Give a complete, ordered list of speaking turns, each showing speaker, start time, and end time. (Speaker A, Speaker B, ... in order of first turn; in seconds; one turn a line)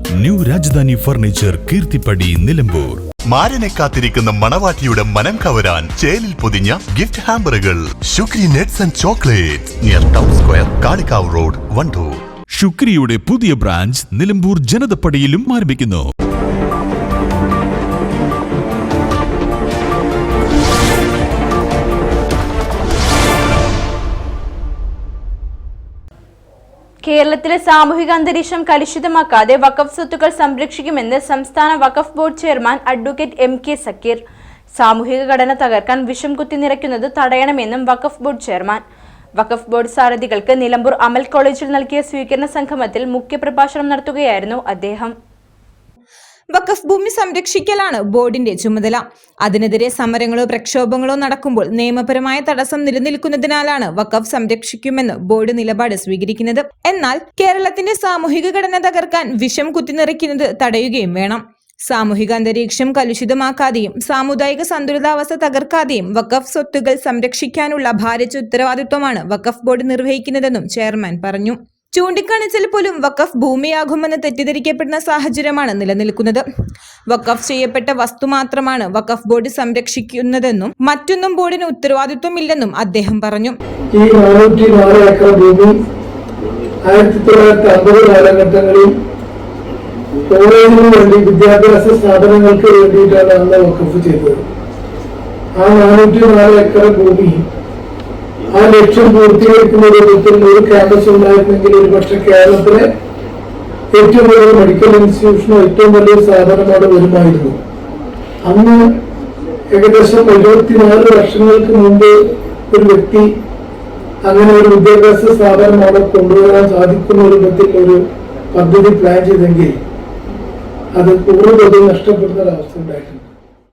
Speaker A: 0.2-3.0
Speaker B: 3.3-12.2
Speaker A: 12.5-16.1
Speaker C: 27.0-34.2
Speaker C: 34.7-38.8
Speaker C: 39.4-45.1
Speaker D: 46.5-76.4
Speaker D: 77.1-83.5
Speaker E: 83.9-85.8
Speaker E: 86.8-88.9
Speaker E: 90.3-94.4
Speaker E: 95.6-97.4
Speaker E: 98.5-102.9
Speaker E: 103.9-107.6
Speaker E: 108.4-108.9
Speaker E: 109.7-112.1
Speaker E: 112.7-113.3
Speaker E: 114.2-118.0
Speaker E: 118.5-119.8
Speaker E: 121.0-123.2